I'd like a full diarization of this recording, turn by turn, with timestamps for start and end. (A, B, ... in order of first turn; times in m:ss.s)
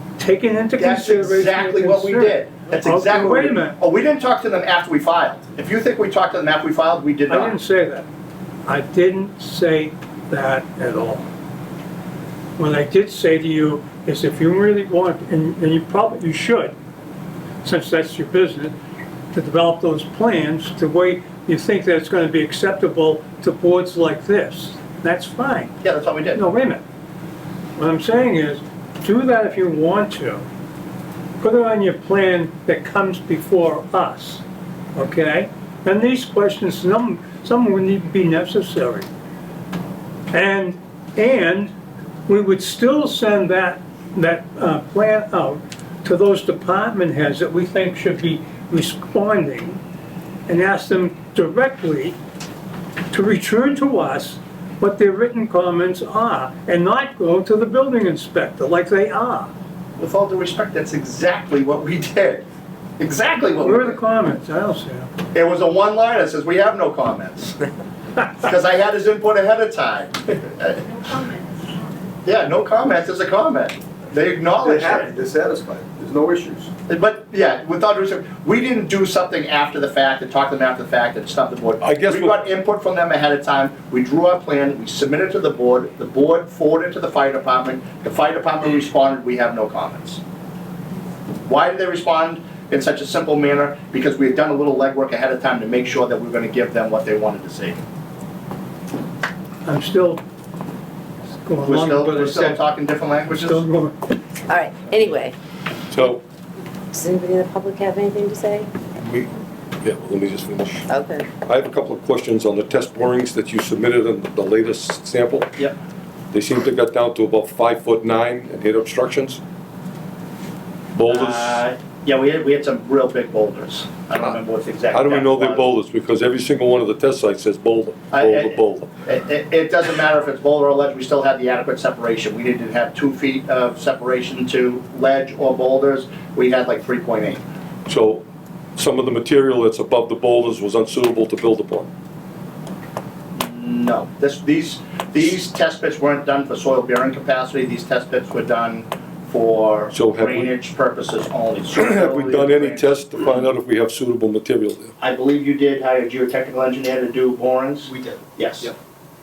0:00.2-0:03.8 A
0:00.8-0:07.6 B
0:07.3-0:08.0 A
0:08.6-0:11.2 A
0:12.6-0:16.7 A
0:17.6-0:18.7 A
0:19.3-0:25.8 A
0:25.8-0:26.4 B
0:26.3-0:26.8 A
0:27.8-0:30.4 A
0:31.4-0:34.4 A
0:34.9-0:39.1 A
0:40.3-0:41.7 A
0:42.3-0:49.8 A
0:50.5-0:52.2 A
0:53.1-0:59.5 A
1:00.0-1:02.4 B
1:03.0-1:04.0 B
1:03.6-1:05.1 A
1:05.3-1:07.6 B
1:08.4-1:10.9 B
1:12.2-1:15.1 B
1:14.6-1:16.7 C
1:16.9-1:30.2 B
1:21.8-1:22.2 D
1:31.4-1:37.8 B
1:39.6-1:40.2 A
1:41.4-1:42.6 A
1:41.6-1:43.6 B
1:43.3-1:44.0 A
1:44.5-1:45.3 E
1:45.9-1:46.2 D
1:46.9-1:48.7 E
1:49.0-1:49.3 D
1:49.8-1:50.8 D
1:50.9-1:51.3 E
1:51.4-1:55.5 D
1:56.3-1:59.4 D
2:01.0-2:01.6 D
2:01.1-2:05.7 B
2:04.9-2:08.9 D
2:08.1-2:17.4 B
2:17.8-2:18.2 D
2:18.8-2:21.9 D
2:23.3-2:33.0 B
2:29.9-2:30.5 D
2:31.7-2:34.9 D
2:35.0-2:38.7 B
2:37.8-2:38.7 C